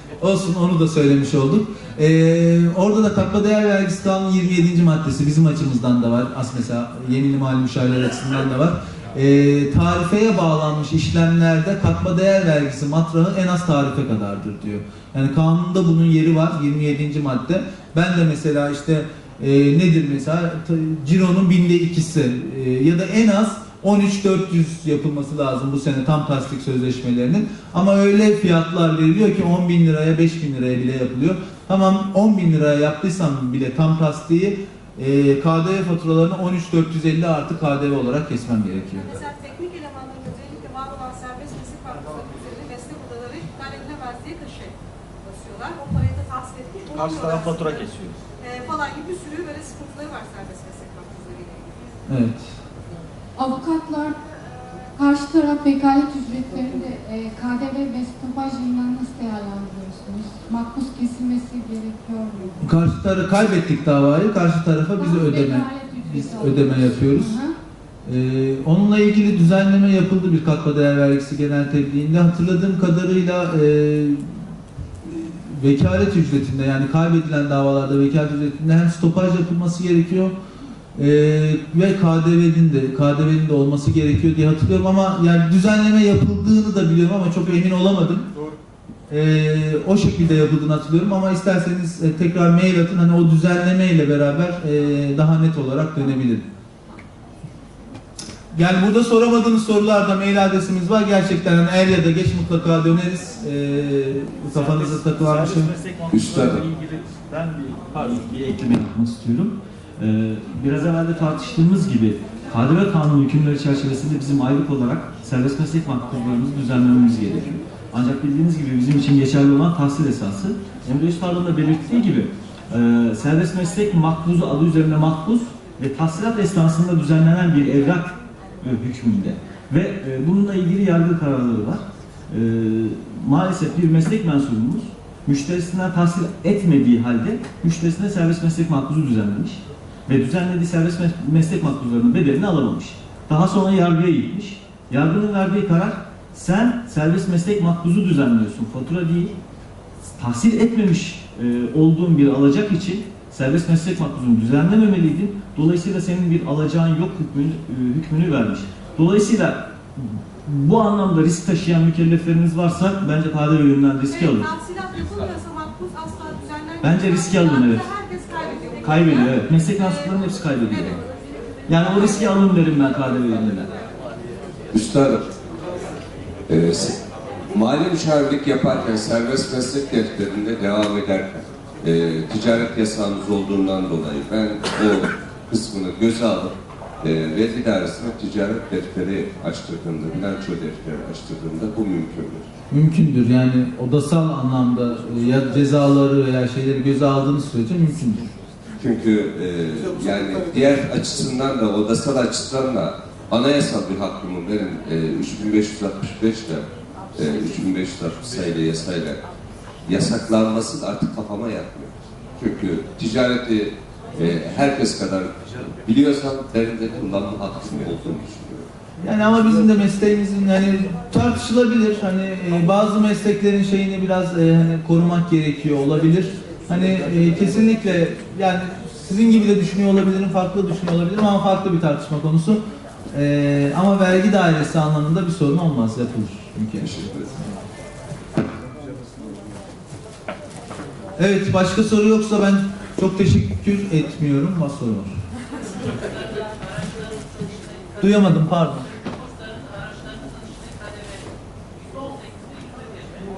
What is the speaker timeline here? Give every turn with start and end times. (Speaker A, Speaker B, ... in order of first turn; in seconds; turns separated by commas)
Speaker A: 0.2-39.2, Speaker B: 38.9-47.9, Speaker C: 46.9-48.2, Speaker B: 48.4-51.9, Speaker A: 52.1-52.5, Speaker D: 53.4-54.2, Speaker D: 55.0-62.6, Speaker A: 62.6-67.4, Speaker D: 65.0-67.6, Speaker A: 68.0-74.4, Speaker A: 75.0-80.3, Speaker A: 81.0-88.3, Speaker A: 89.1-96.5, Speaker A: 98.5-105.7, Speaker C: 104.5-149.4, Speaker E: 106.1-106.6, Speaker C: 150.2-164.5, Speaker B: 164.1-172.2, Speaker C: 166.8-167.9, Speaker C: 168.8-171.0, Speaker C: 171.7-173.7, Speaker E: 174.7-175.2, Speaker E: 176.5-177.0, Speaker E: 177.5-192.5, Speaker A: 192.7-198.3, Speaker E: 198.8-209.2, Speaker E: 209.9-218.7, Speaker A: 219.0-237.6, Speaker E: 236.8-237.3, Speaker A: 241.2-245.2, Speaker A: 248.0-248.9